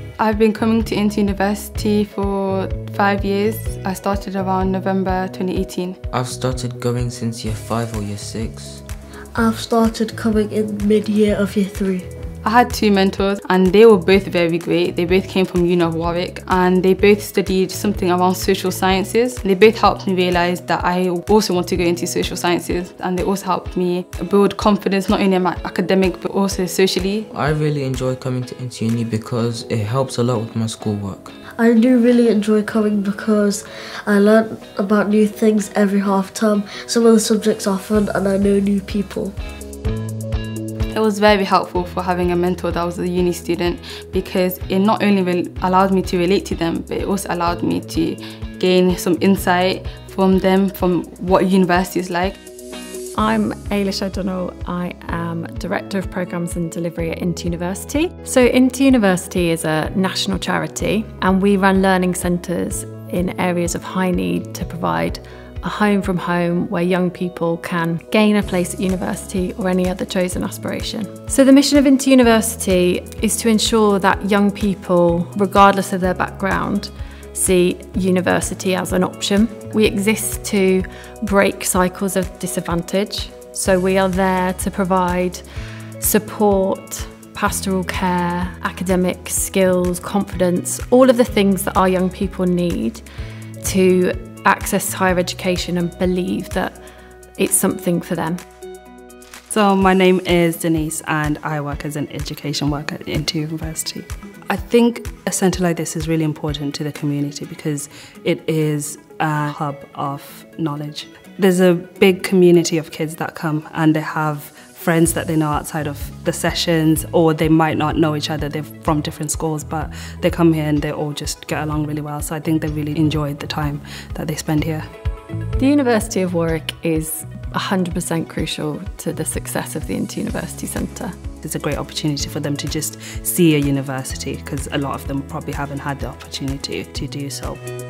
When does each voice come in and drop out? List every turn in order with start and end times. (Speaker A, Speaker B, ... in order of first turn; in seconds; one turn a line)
Speaker A: 0.2-6.0
Speaker B: 6.1-8.8
Speaker C: 9.3-12.1
Speaker A: 12.4-27.3
Speaker B: 27.3-31.3
Speaker C: 31.6-39.3
Speaker A: 40.9-52.4
Speaker D: 53.1-85.4
Speaker D: 86.0-93.0
Speaker D: 93.6-96.8
Speaker D: 97.4-98.4
Speaker E: 99.5-124.8
Speaker D: 125.6-131.2
Speaker E: 131.4-137.6